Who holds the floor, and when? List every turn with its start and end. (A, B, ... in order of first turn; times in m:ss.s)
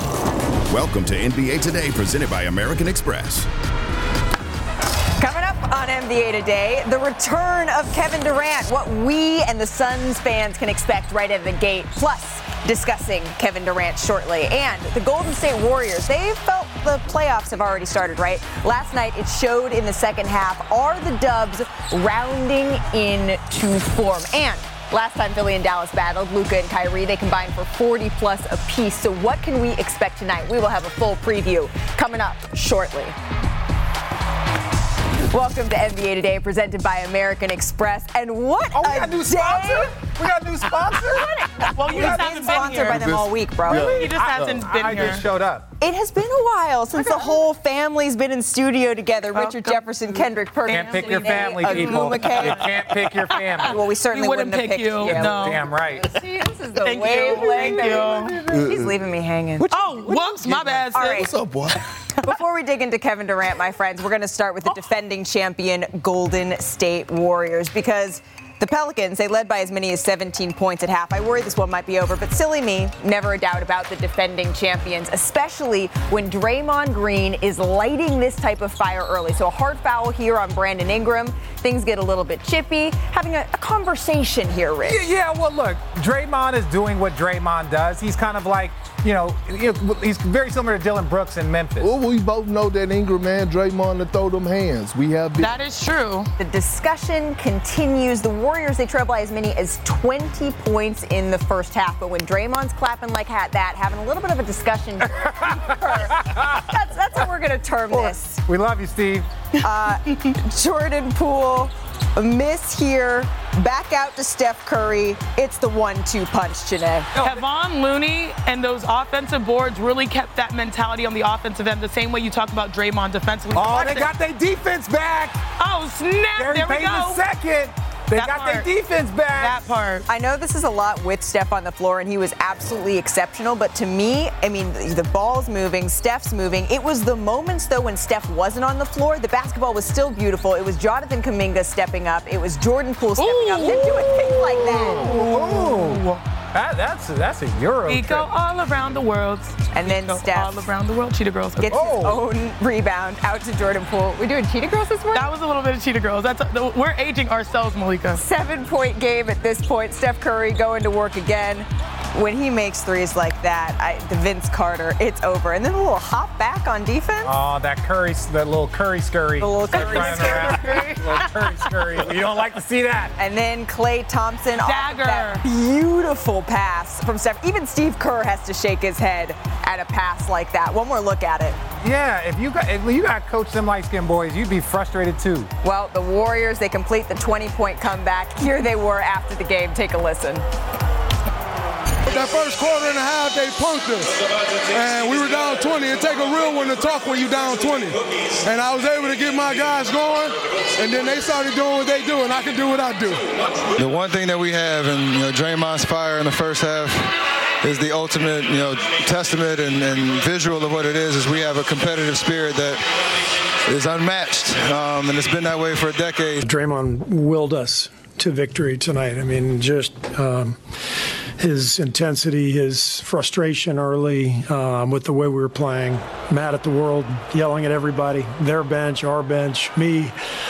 0:00.7-0:03.5 A
0:05.2-0:33.2 B
0:35.3-0:39.9 B
0:38.7-0:43.0 C
0:41.1-0:44.0 B
0:41.7-0:43.1 D
0:42.9-0:44.7 E
0:43.7-0:45.2 D
0:43.7-0:45.7 C
0:45.8-0:52.7 B
0:47.0-0:47.3 C
0:49.3-0:52.6 D
0:50.7-0:53.8 C
0:53.6-1:01.3 B
0:54.1-0:55.6 D
0:55.0-0:56.1 C
0:56.8-0:58.4 D
0:58.4-0:58.9 E
0:59.7-1:01.3 D
1:00.5-1:01.8 E
1:02.2-1:25.0 B
1:24.8-1:31.9 C
1:31.8-1:35.6 E
1:35.4-1:36.3 D
1:36.4-1:48.4 B
1:45.2-1:46.7 C
1:47.9-1:49.3 C
1:49.6-1:57.1 B
1:57.2-2:04.1 D
2:03.6-2:05.4 C
2:05.6-2:07.2 D
2:06.4-2:09.6 C
2:08.1-2:08.7 D
2:09.4-2:10.1 D
2:10.1-2:25.2 B
2:23.2-2:24.2 D
2:24.7-2:25.7 E
2:24.8-2:28.3 C
2:27.9-2:31.9 D
2:29.7-2:30.7 B
2:31.6-2:35.3 B
2:31.7-2:32.2 C
2:35.1-2:38.2 D
2:38.1-2:47.3 B
2:47.2-2:53.1 C
2:49.4-2:50.9 B
2:49.7-2:51.6 D
2:53.2-3:01.6 B
2:54.6-2:55.4 D
3:01.8-3:05.5 C
3:05.6-3:10.4 B
3:12.1-3:14.1 F
3:14.7-3:23.2 F
3:23.8-3:32.8 G
3:33.6-3:36.4 G
3:36.5-3:40.8 H
3:41.4-3:50.2 H